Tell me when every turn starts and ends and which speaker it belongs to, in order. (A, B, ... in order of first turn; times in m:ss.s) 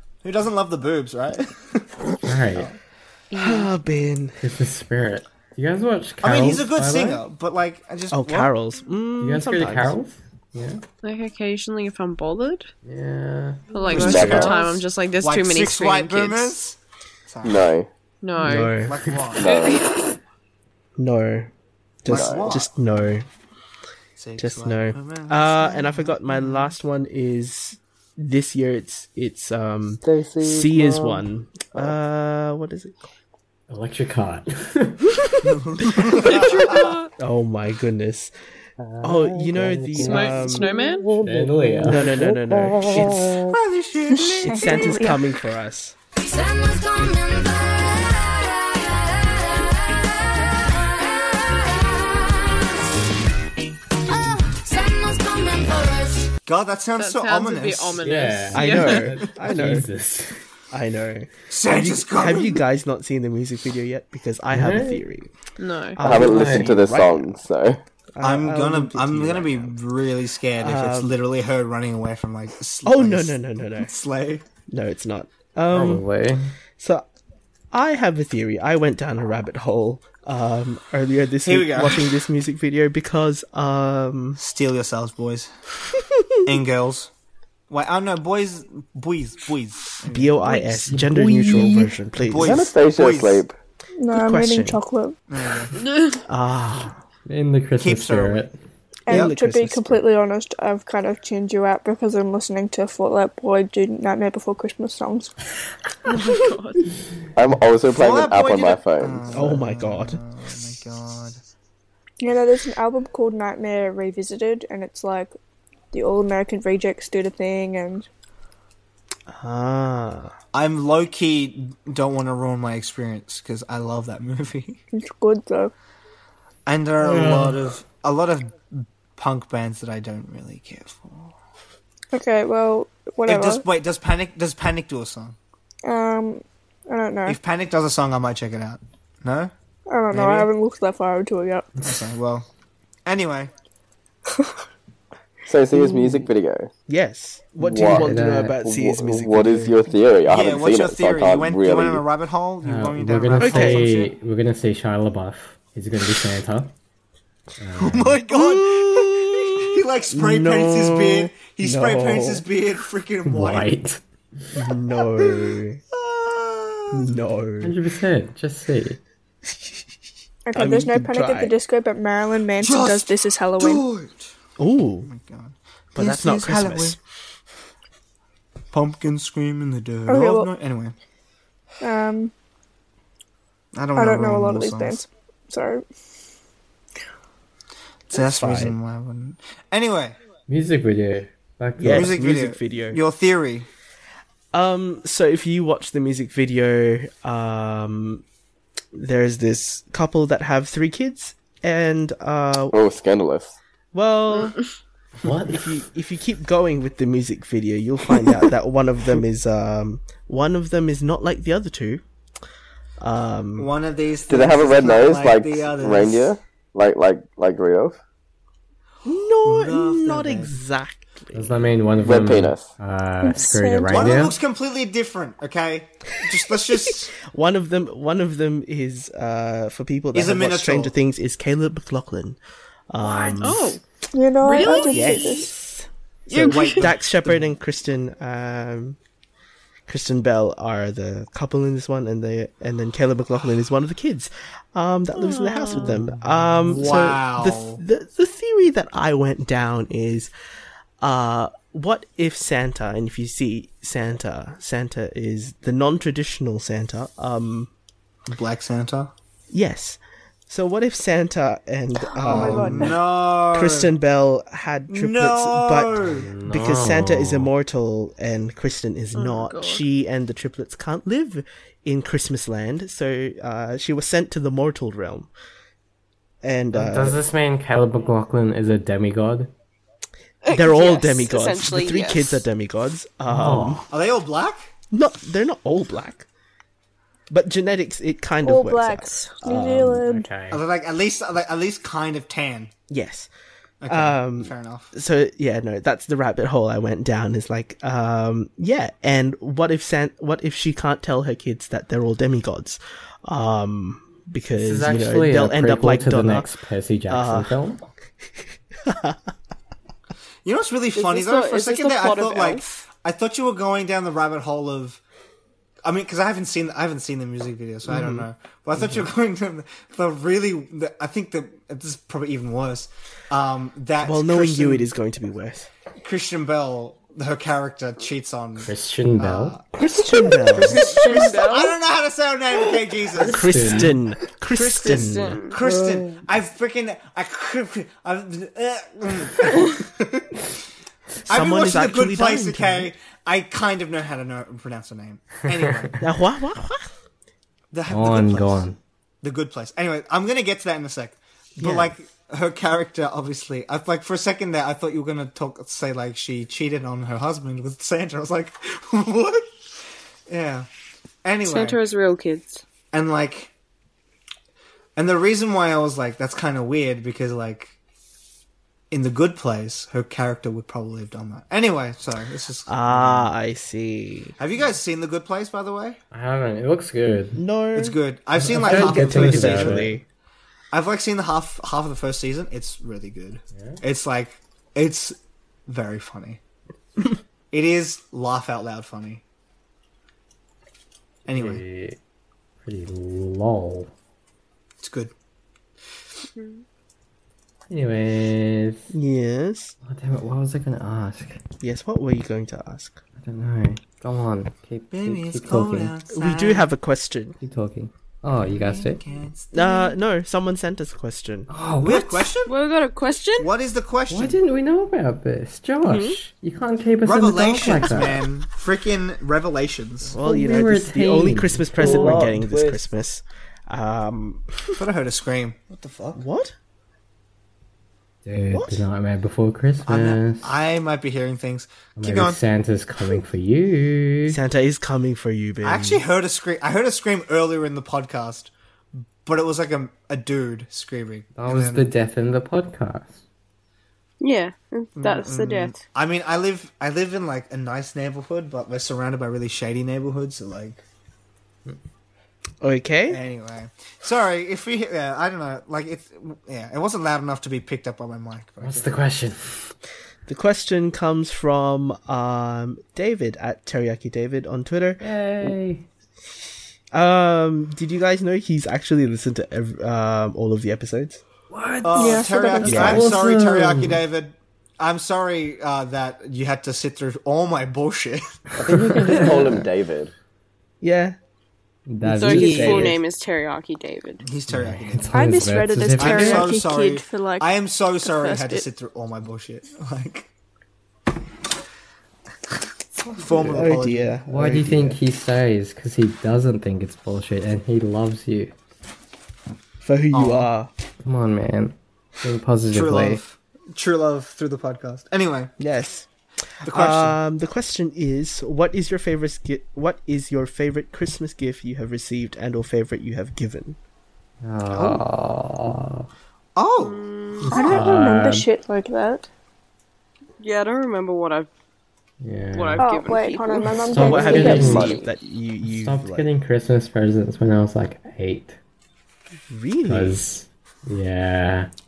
0:00.2-0:02.8 A
0:02.2-0:02.7 B
0:03.3-0:03.7 C
0:03.3-0:04.4 D
0:04.4-0:07.2 B
0:06.2-0:08.5 A
0:08.1-0:10.0 D
0:09.2-0:10.8 B
0:11.0-0:12.7 C
0:12.8-0:13.6 B
0:13.7-0:16.6 C
0:13.9-0:17.7 A
0:13.9-0:14.5 E
0:17.4-0:17.9 E
0:18.2-0:18.8 C
0:18.4-0:19.0 D
0:18.7-0:19.5 A
0:19.4-0:19.8 E
0:19.4-0:20.1 C
0:21.0-0:21.5 D
0:22.0-0:23.3 D
0:22.1-0:22.5 E
0:22.1-0:22.7 A
0:24.2-0:26.7 A
0:24.4-0:33.0 D
0:33.7-0:35.0 B
0:35.4-0:36.9 A
0:35.8-0:38.3 D
0:36.2-0:37.1 C
0:39.0-0:40.8 D
0:40.0-0:41.2 C
0:41.2-0:42.1 B
0:41.8-0:43.5 D
0:43.5-0:44.9 A
0:44.2-0:45.9 D
0:44.3-0:45.3 F
0:46.2-0:52.9 G
0:54.1-0:56.3 G
0:56.4-0:58.0 A
0:57.0-0:59.2 C
0:58.0-1:00.4 B
0:58.5-0:59.9 D
1:00.7-1:05.3 D
1:01.5-1:02.6 A
1:04.5-1:05.0 B
1:05.6-1:06.0 C
1:06.0-1:07.4 D
1:06.0-1:07.8 E
1:06.0-1:06.7 B
1:08.1-1:09.8 D
1:08.2-1:14.4 A
1:10.6-1:11.2 D
1:12.8-1:13.9 D
1:14.7-1:16.0 D
1:15.7-1:16.5 B
1:16.8-1:17.0 D
1:17.7-1:24.4 D
1:21.4-1:22.1 A
1:24.4-1:25.5 A
1:26.4-1:27.1 A
1:27.7-1:30.8 A
1:30.0-1:32.7 D
1:30.9-1:31.9 B
1:32.2-1:33.4 A
1:32.4-1:33.6 E
1:34.0-1:35.2 F
1:34.1-1:34.8 D
1:35.3-1:35.8 A
1:35.8-1:36.2 C
1:36.3-1:37.0 D
1:37.3-1:38.6 B
1:37.8-1:38.5 A
1:39.0-1:45.4 F
1:39.1-1:40.0 D
1:46.1-1:46.8 C
1:47.4-1:49.3 E
1:47.9-1:51.4 A
1:49.3-1:50.2 D
1:52.2-1:55.3 F
1:55.9-1:58.0 F
1:59.3-2:00.3 D
2:00.5-2:04.8 A
2:04.9-2:05.7 F
2:06.6-2:11.3 A
2:07.0-2:07.7 B
2:12.1-2:13.6 F
2:13.2-2:15.4 A
2:15.8-2:17.4 F
2:17.3-2:19.5 A
2:19.9-2:21.8 F
2:20.1-2:20.5 A
2:21.8-2:22.5 A
2:23.0-2:23.5 A
2:25.4-2:26.7 E
2:26.9-2:29.7 D
2:27.6-2:32.0 E
2:27.8-2:28.6 B
2:30.3-2:34.1 A
2:32.6-2:36.7 B
2:33.4-2:33.9 D
2:37.6-2:38.2 B
2:37.8-2:43.7 A
2:38.3-2:42.5 D
2:43.2-2:44.0 B
2:44.5-2:45.8 D
2:45.9-2:47.1 A
2:46.9-2:47.8 D
2:47.6-2:49.0 B
2:50.4-2:53.8 F
2:50.6-2:51.5 D
2:52.6-2:54.3 A
2:54.6-2:55.1 D
2:55.0-2:57.0 A
2:55.9-2:57.0 D
2:58.7-3:00.9 A
3:00.1-3:00.5 F
3:01.8-3:02.3 F
3:03.7-3:05.0 A
3:03.9-3:05.8 F
3:08.1-3:10.2 A
3:08.1-3:08.8 D
3:10.5-3:12.1 B
3:11.8-3:13.0 D
3:11.8-3:13.7 A
3:14.5-3:18.2 D
3:18.9-3:22.8 D
3:22.7-3:23.6 E
3:23.9-3:24.6 D
3:25.2-3:25.7 B
3:25.5-3:32.0 D
3:33.0-3:33.7 D
3:33.6-3:36.3 A
3:34.3-3:38.0 E
3:39.0-3:41.7 D
3:39.4-3:40.5 A
3:41.3-3:44.3 B
3:42.0-3:42.7 E
3:43.2-3:44.3 F
3:43.9-3:47.1 A
3:46.8-3:52.4 D
3:50.1-3:50.9 A
3:52.9-3:53.8 D
3:53.0-3:53.8 C
3:54.1-3:55.5 F
3:54.4-3:55.5 C
3:54.5-3:59.0 D
3:56.3-3:56.9 C
3:56.3-3:57.5 A
3:59.9-4:10.3 D
4:05.1-4:05.9 C
4:06.7-4:07.8 A
4:11.0-4:17.7 D
4:18.3-4:19.1 A
4:19.5-4:35.3 D
4:22.1-4:23.0 F
4:22.2-4:23.9 A
4:24.9-4:26.3 A
4:26.1-4:27.5 B
4:29.1-4:29.8 C
4:36.4-4:37.2 D
4:36.7-4:39.5 B
4:40.4-4:42.4 C
4:40.5-4:43.8 D
4:43.3-4:43.9 B
4:43.9-4:44.7 A
4:44.9-4:46.3 D
4:47.3-4:50.0 D
4:48.4-4:50.3 F
4:50.0-4:50.6 B
4:50.5-4:52.7 A
4:52.9-4:53.3 D
4:53.8-4:54.9 A
4:53.9-5:06.5 D
5:04.6-5:07.8 B
5:07.1-5:07.6 D
5:08.8-5:09.3 D
5:10.4-5:15.0 A
5:10.9-5:12.8 C
5:15.8-5:24.9 A
5:17.8-5:18.3 D
5:24.0-5:25.7 D
5:26.0-5:29.6 A
5:28.7-5:29.6 B
5:29.7-5:31.3 D
5:30.5-5:33.8 A
5:30.5-5:31.8 C
5:33.2-5:34.0 B
5:33.2-5:35.7 D
5:34.5-5:40.4 A
5:34.8-5:35.6 C
5:34.8-5:35.4 B
5:41.3-5:42.9 D
5:41.3-5:46.0 A
5:45.6-5:45.8 B
5:46.0-5:46.9 D
5:47.7-5:48.6 A
5:47.9-5:48.8 B
5:49.2-5:59.4 A
5:51.6-5:52.0 D
6:00.3-6:00.7 A
6:01.2-6:01.8 A
6:01.4-6:02.6 C
6:02.9-6:03.5 A
6:05.0-6:07.7 A
6:08.9-6:13.3 A
6:12.7-6:14.4 D
6:14.4-6:16.0 A
6:16.1-6:17.4 B
6:17.3-6:18.0 D
6:17.7-6:20.0 A
6:18.4-6:20.0 B
6:18.6-6:20.0 D
6:20.7-6:25.2 A
6:23.5-6:23.8 B
6:25.7-6:26.4 A
6:27.5-6:29.2 A
6:31.3-6:31.6 A
6:31.3-6:32.0 B
6:32.6-6:33.9 B
6:34.8-6:35.1 A
6:36.4-6:36.6 C
6:37.7-6:38.9 B
6:38.9-6:39.7 D
6:39.8-6:41.4 B
6:41.6-6:43.0 D
6:43.2-6:45.9 B
6:44.9-6:46.7 A
6:46.1-6:47.4 D
6:47.4-6:49.0 B
6:48.3-6:49.9 A
6:49.5-6:51.5 D
6:51.5-6:52.3 B
6:51.8-6:52.5 A
6:52.4-6:53.5 C
6:53.4-6:54.4 A
6:54.1-6:58.2 B
6:55.8-6:56.2 C
6:57.0-7:00.2 A
7:00.1-7:04.8 D
7:00.2-7:02.2 B
7:01.8-7:02.8 E
7:04.8-7:06.2 A
7:06.1-7:06.6 D
7:08.2-7:10.5 B
7:08.5-7:08.8 D
7:09.8-7:12.4 A
7:12.0-7:14.4 B
7:14.3-7:16.0 D
7:15.6-7:18.5 A
7:19.2-7:21.9 A
7:21.4-7:23.2 B
7:24.2-7:25.8 C
7:25.0-7:30.8 A
7:32.6-7:33.2 D
7:33.1-7:39.0 A
7:38.6-7:39.7 B
7:40.3-7:45.5 D
7:45.0-7:45.8 B
7:46.9-7:51.2 D
7:51.5-7:54.0 B
7:51.8-7:59.2 A
7:52.0-7:53.0 F
7:52.6-7:53.1 D
7:58.6-8:00.1 E
7:58.7-7:59.4 B
8:00.8-8:01.2 D
8:01.9-8:03.0 B
8:02.0-8:02.9 D
8:02.2-8:04.2 C
8:04.2-8:05.3 A
8:04.5-8:06.5 B
8:05.1-8:07.5 F
8:06.0-8:10.3 A
8:08.0-8:08.6 F
8:13.0-8:14.1 A
8:13.4-8:15.0 D
8:14.3-8:18.5 B
8:19.8-8:20.7 D
8:20.1-8:20.5 A
8:21.0-8:23.2 B
8:22.7-8:25.5 A
8:25.6-8:26.1 D
8:26.6-8:33.8 D
8:26.6-8:27.2 A
8:34.4-8:36.1 B
8:34.7-8:35.0 A
8:36.6-8:37.0 A
8:36.8-8:37.8 C
8:37.4-8:38.5 B
8:37.5-8:39.3 F
8:40.4-8:41.5 C
8:42.2-8:42.9 B
8:42.5-8:45.1 C
8:42.8-8:44.8 F
8:43.8-8:44.9 B
8:44.0-8:46.3 D
8:45.6-8:48.6 B
8:49.5-8:50.2 D
8:49.8-8:51.7 B